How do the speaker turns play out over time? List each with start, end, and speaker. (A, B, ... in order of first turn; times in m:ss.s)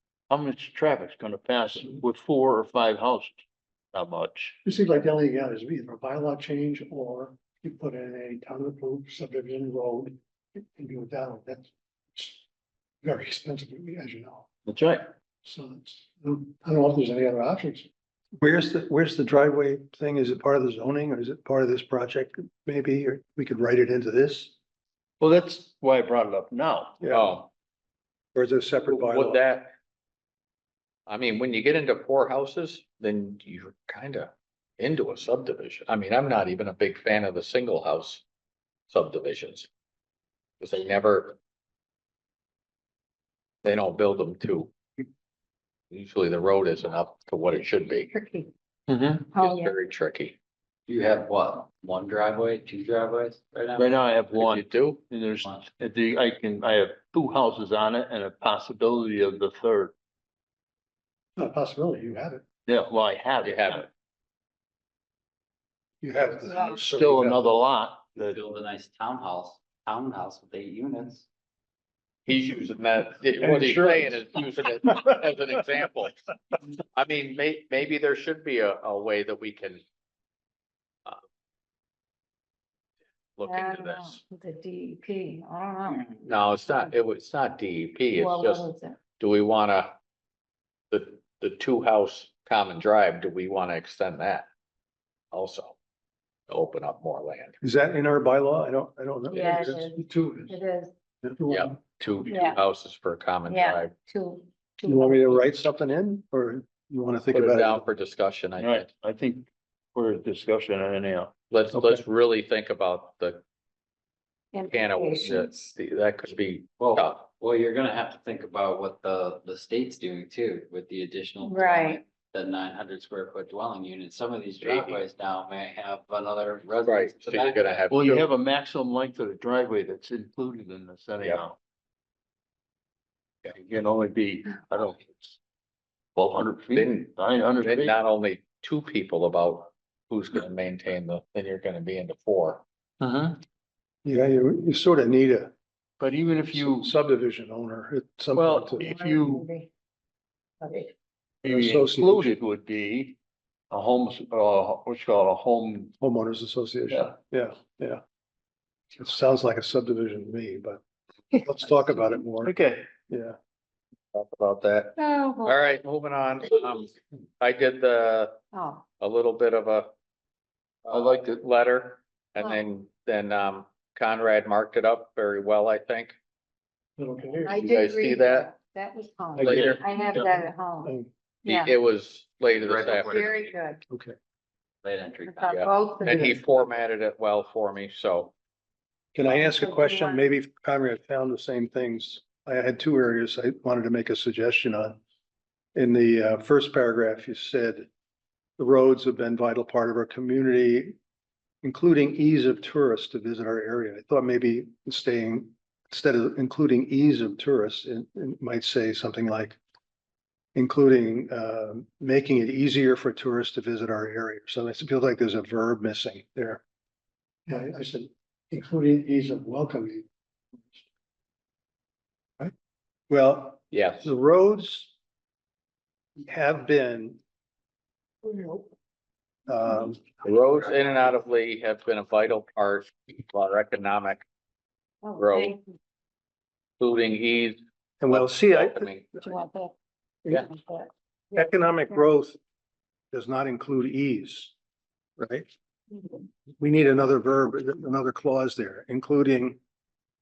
0:00.3-0:04.6 A
0:04.7-0:05.0 B
0:04.7-0:10.1 C
0:10.8-0:11.6 C
0:13.1-0:14.4 C
0:14.6-0:15.1 A
0:15.5-0:17.8 C
0:18.4-0:24.5 B
0:25.2-0:27.0 A
0:27.0-0:27.3 B
0:27.1-0:27.5 D
0:28.3-0:29.4 B
0:28.8-0:29.7 D
0:31.1-0:38.2 D
0:38.9-0:39.7 D
0:40.6-0:41.4 D
0:43.6-0:44.7 D
0:45.9-0:48.1 D
0:48.1-0:48.5 E
0:48.9-0:49.3 A
0:49.3-0:49.7 E
0:49.4-0:50.4 D
0:50.9-0:53.9 F
0:53.8-0:59.9 A
0:54.3-0:55.0 D
0:55.4-0:55.7 F
1:01.4-1:02.4 B
1:02.6-1:03.9 A
1:03.4-1:03.8 D
1:06.0-1:07.4 B
1:06.5-1:06.8 E
1:06.8-1:08.4 A
1:08.2-1:11.3 F
1:12.2-1:16.2 D
1:13.4-1:14.3 B
1:16.9-1:19.8 D
1:23.4-1:24.2 D
1:23.4-1:26.2 E
1:26.2-1:29.9 D
1:28.1-1:29.0 E
1:30.9-1:34.5 D
1:35.3-1:35.8 D
1:36.5-1:37.5 D
1:37.6-1:40.6 B
1:39.3-1:40.9 E
1:39.3-1:39.6 D
1:41.4-1:42.3 C
1:41.5-1:43.9 D
1:42.2-1:42.6 E
1:43.4-1:45.4 E
1:44.8-1:47.8 B
1:47.3-1:48.9 D
1:48.6-1:51.3 A
1:51.5-1:53.4 D
1:51.7-1:52.0 B
1:54.5-1:55.7 E
1:54.7-1:57.2 D
1:56.8-2:07.8 F
2:01.4-2:02.0 E
2:04.6-2:05.0 D
2:06.8-2:08.2 D
2:07.9-2:11.6 A
2:13.4-2:15.4 A
2:16.1-2:17.9 A
2:16.7-2:22.6 D
2:23.0-2:23.4 A
2:24.0-2:25.5 B
2:26.0-2:26.9 A
2:26.5-2:28.9 B
2:28.3-2:29.4 A
2:28.8-2:29.7 E
2:30.6-2:30.9 E
2:31.4-2:33.2 A
2:31.4-2:32.4 B
2:33.7-2:35.9 A
2:36.0-2:38.0 B
2:39.0-2:40.8 B
2:41.4-2:42.5 B
2:42.4-2:42.9 A
2:43.1-2:43.4 B
2:44.1-2:48.4 D
2:45.0-2:45.6 E
2:48.5-2:48.9 E
2:49.0-2:49.9 D
2:50.8-2:56.1 D
2:50.9-2:51.4 A
2:57.0-2:57.8 B
2:57.4-3:00.9 E
2:57.6-2:58.5 D
2:59.4-2:59.7 B
2:59.4-2:59.8 D
2:59.4-2:59.7 A
3:01.4-3:01.8 E
3:01.4-3:03.3 D
3:02.6-3:03.5 F
3:03.1-3:03.8 E
3:03.9-3:04.1 B
3:04.8-3:05.7 F
3:05.3-3:06.4 E
3:05.4-3:08.3 D
3:06.1-3:06.4 B
3:09.1-3:15.0 B
3:09.2-3:10.2 E
3:15.7-3:17.9 B
3:18.6-3:21.0 B
3:21.6-3:29.6 B
3:30.5-3:36.6 B
3:37.5-3:40.0 C
3:37.5-3:39.5 B
3:43.1-3:44.9 B
3:43.7-3:44.1 D
3:46.2-3:47.2 B
3:48.3-3:48.6 B
3:49.5-3:50.0 B
3:50.2-3:54.2 D
3:55.0-3:55.6 E
3:55.2-3:55.5 D
3:56.8-3:57.6 D
3:58.0-3:59.3 B
3:58.1-3:59.1 D
3:59.2-3:59.7 E
4:00.3-4:01.9 E
4:01.3-4:02.4 B
4:03.1-4:04.5 B
4:05.2-4:05.5 B
4:06.6-4:09.6 B